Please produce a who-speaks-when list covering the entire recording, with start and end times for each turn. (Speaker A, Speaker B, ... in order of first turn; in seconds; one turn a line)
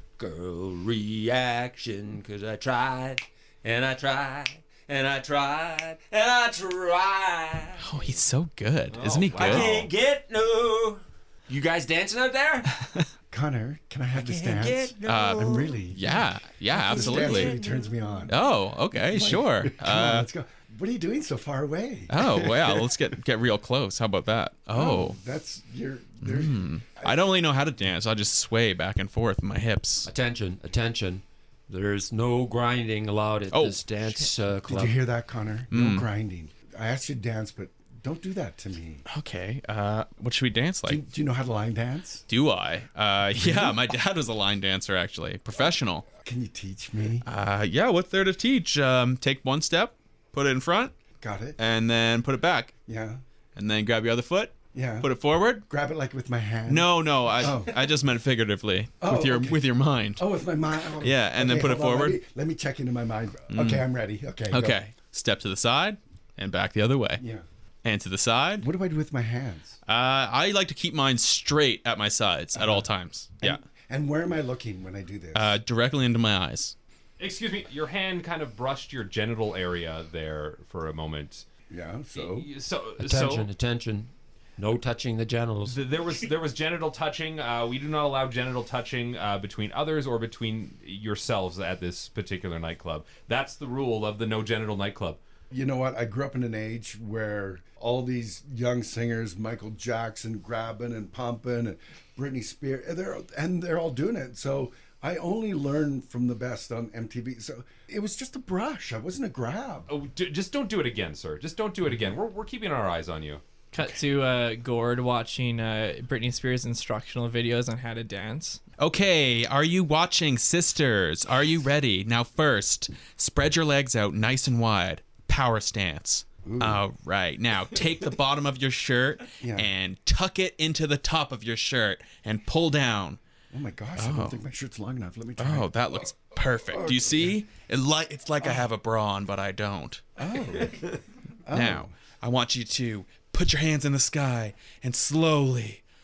Speaker A: 0.2-8.1
Speaker B: 7.8-9.8
Speaker C: 9.0-9.9
Speaker A: 9.0-12.7
Speaker D: 13.3-18.4
Speaker A: 14.1-15.8
Speaker B: 15.1-17.6
Speaker A: 16.7-18.2
Speaker B: 18.3-20.3
Speaker D: 18.9-22.9
Speaker B: 22.1-25.2
Speaker D: 24.7-27.2
Speaker B: 26.2-30.1
Speaker A: 30.1-35.0
Speaker B: 33.5-34.3
Speaker D: 34.7-39.0
Speaker B: 35.7-36.1
Speaker B: 39.1-41.0
Speaker D: 40.9-42.2
Speaker B: 42.3-46.1
Speaker D: 43.4-43.8
Speaker D: 46.2-47.3
Speaker B: 47.2-51.0
Speaker D: 51.2-51.6
Speaker B: 51.6-52.7
Speaker D: 52.9-53.2
Speaker B: 53.5-55.6
Speaker D: 54.7-57.8
Speaker B: 56.7-60.3
Speaker D: 59.0-64.8
Speaker B: 61.0-62.2
Speaker B: 63.5-63.9
Speaker B: 64.5-67.2
Speaker D: 67.2-67.5
Speaker B: 67.8-68.7
Speaker D: 68.6-69.8
Speaker B: 69.9-73.6
Speaker D: 72.5-72.9
Speaker D: 73.4-75.5
Speaker B: 75.3-76.8
Speaker C: 77.2-81.5
Speaker D: 81.7-82.5
Speaker C: 82.1-83.5
Speaker A: 83.0-85.8
Speaker C: 85.7-95.2
Speaker D: 95.5-109.9
Speaker C: 109.9-113.4
Speaker E: 113.7-118.6
Speaker B: 118.8-133.2
Speaker D: 126.5-126.8
Speaker D: 129.4-129.7
Speaker D: 133.5-136.1
Speaker B: 133.9-134.4
Speaker B: 135.4-140.0
Speaker D: 136.7-137.4
Speaker D: 138.4-138.7
Speaker D: 140.2-140.8
Speaker D: 141.4-141.9
Speaker B: 141.5-145.8